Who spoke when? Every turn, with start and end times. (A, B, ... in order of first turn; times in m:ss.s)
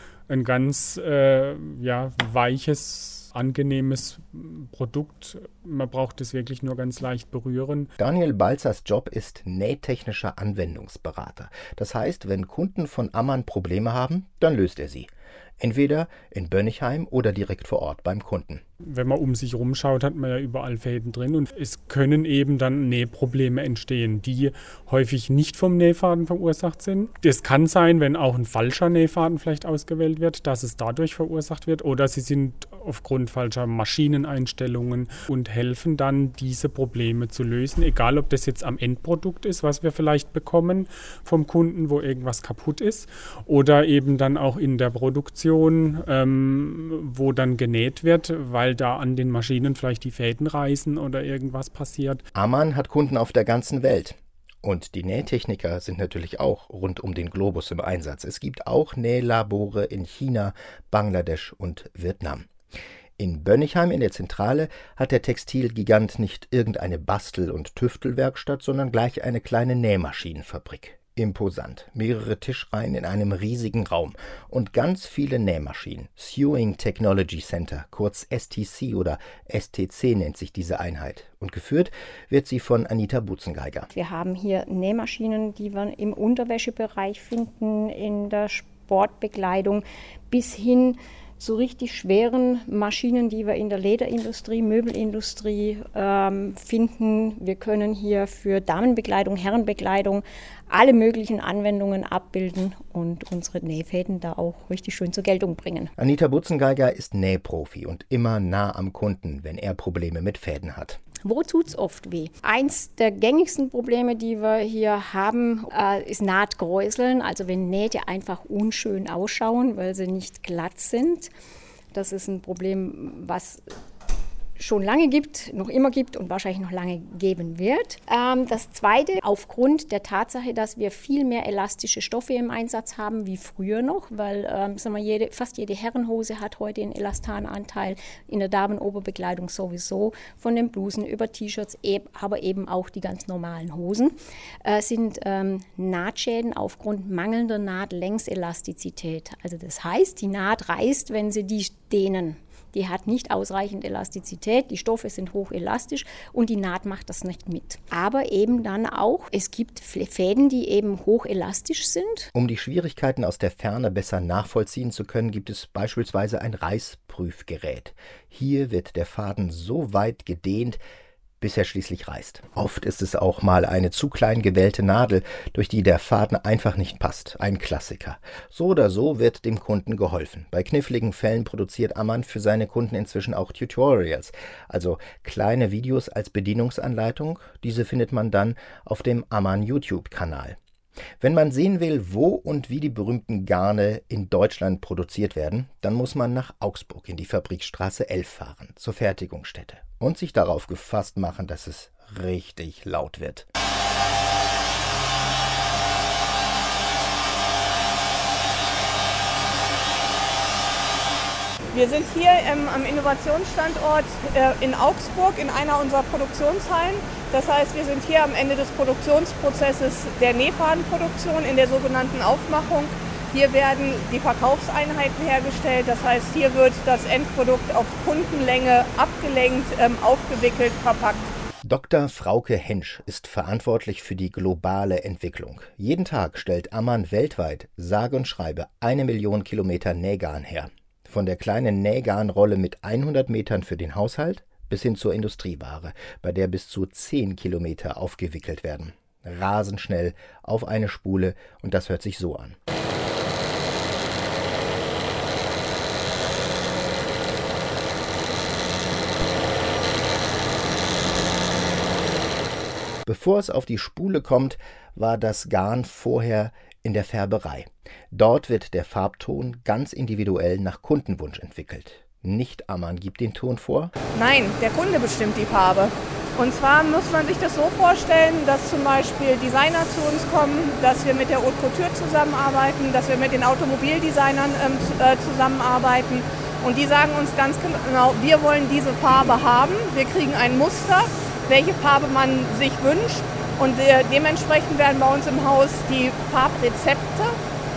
0:00.3-0:07.9 A
0:08.0-0:18.6 B
0:18.8-0:52.2 A
0:52.3-1:02.5 B
1:03.2-1:23.9 B
1:23.9-1:45.9 C
1:46.0-1:51.0 B
1:51.2-2:01.3 C
2:01.9-2:03.6 C
2:04.6-2:42.3 C
2:42.3-2:50.8 B
2:51.4-3:10.6 B
3:11.2-3:23.5 B
3:31.7-3:51.3 D
3:51.6-4:12.6 B
4:23.0-4:33.9 B
4:34.1-4:57.4 D